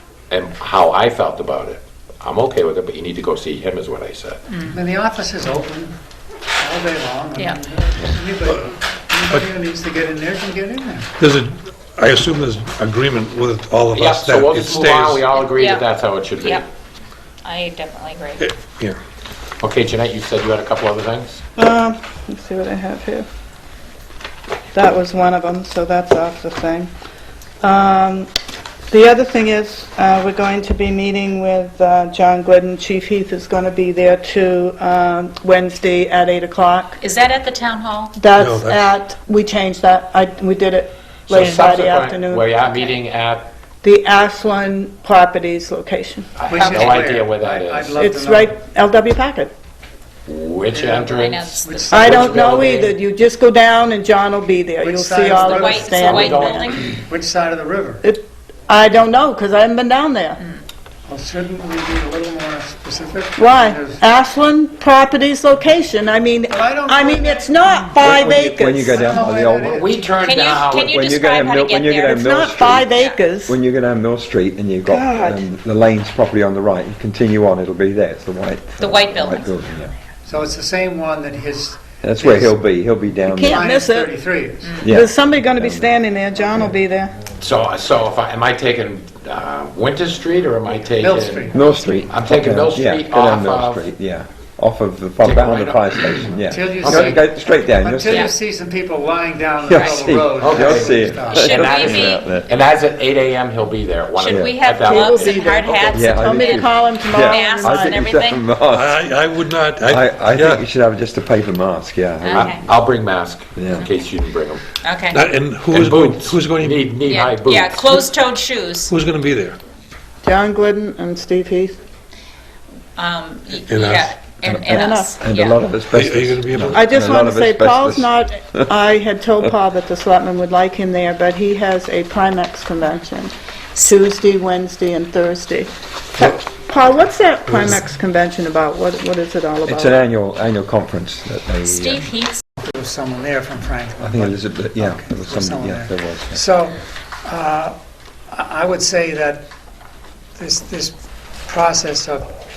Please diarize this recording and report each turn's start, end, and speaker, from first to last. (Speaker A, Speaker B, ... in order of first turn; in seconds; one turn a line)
Speaker A: 0.3-4.5
Speaker B: 4.7-6.0
Speaker B: 6.6-11.1
Speaker C: 11.2-15.3
Speaker A: 13.9-16.7
Speaker D: 15.3-16.6
Speaker D: 17.4-18.4
Speaker C: 18.4-19.0
Speaker A: 19.6-21.4
Speaker E: 21.6-23.3
Speaker E: 24.7-26.9
Speaker E: 27.6-28.3
Speaker E: 28.9-37.0
Speaker D: 37.0-38.2
Speaker E: 38.1-42.9
Speaker C: 38.4-38.8
Speaker A: 41.3-43.5
Speaker E: 43.8-46.9
Speaker A: 46.4-48.0
Speaker B: 46.5-48.5
Speaker E: 48.0-49.5
Speaker A: 50.3-53.0
Speaker B: 50.7-52.9
Speaker D: 51.1-52.0
Speaker E: 51.9-56.7
Speaker B: 54.8-56.1
Speaker D: 55.3-56.9
Speaker A: 55.9-56.9
Speaker B: 56.9-58.0
Speaker E: 58.0-60.4
Speaker B: 61.1-64.0
Speaker E: 63.4-69.0
Speaker B: 66.5-68.3
Speaker F: 68.0-69.8
Speaker B: 68.9-70.2
Speaker A: 69.7-71.0
Speaker D: 70.2-72.3
Speaker F: 70.8-79.9
Speaker E: 72.0-73.5
Speaker D: 72.9-73.2
Speaker E: 74.9-75.4
Speaker D: 78.8-79.6
Speaker B: 80.3-82.7
Speaker F: 82.0-83.6
Speaker E: 83.3-84.1
Speaker B: 83.4-84.8
Speaker F: 84.8-86.0
Speaker E: 84.9-87.2
Speaker A: 87.4-91.5
Speaker B: 91.0-91.6
Speaker F: 91.5-98.3
Speaker A: 92.1-93.9
Speaker A: 95.2-97.2
Speaker B: 96.5-102.0
Speaker D: 98.1-98.3
Speaker F: 99.7-102.5
Speaker D: 99.8-100.1
Speaker A: 100.3-105.8
Speaker D: 101.3-102.7
Speaker D: 104.2-108.5
Speaker F: 104.2-104.6
Speaker E: 105.0-108.0
Speaker B: 105.7-106.0
Speaker F: 105.9-109.0
Speaker C: 108.7-110.6
Speaker F: 109.9-112.6
Speaker D: 112.2-112.6
Speaker A: 112.3-114.7
Speaker F: 113.6-113.9
Speaker D: 114.8-115.3
Speaker C: 115.1-117.0
Speaker A: 115.7-118.1
Speaker D: 117.0-118.9
Speaker C: 118.9-119.6
Speaker E: 120.2-121.8
Speaker D: 123.0-125.7
Speaker C: 123.7-124.2
Speaker F: 124.4-128.7
Speaker E: 124.7-125.1
Speaker C: 125.9-127.0
Speaker E: 126.7-140.0
Speaker C: 137.5-137.8
Speaker F: 139.7-142.1
Speaker D: 141.7-142.4
Speaker B: 142.6-147.8
Speaker F: 144.0-146.4
Speaker B: 148.3-149.5
Speaker B: 150.4-152.3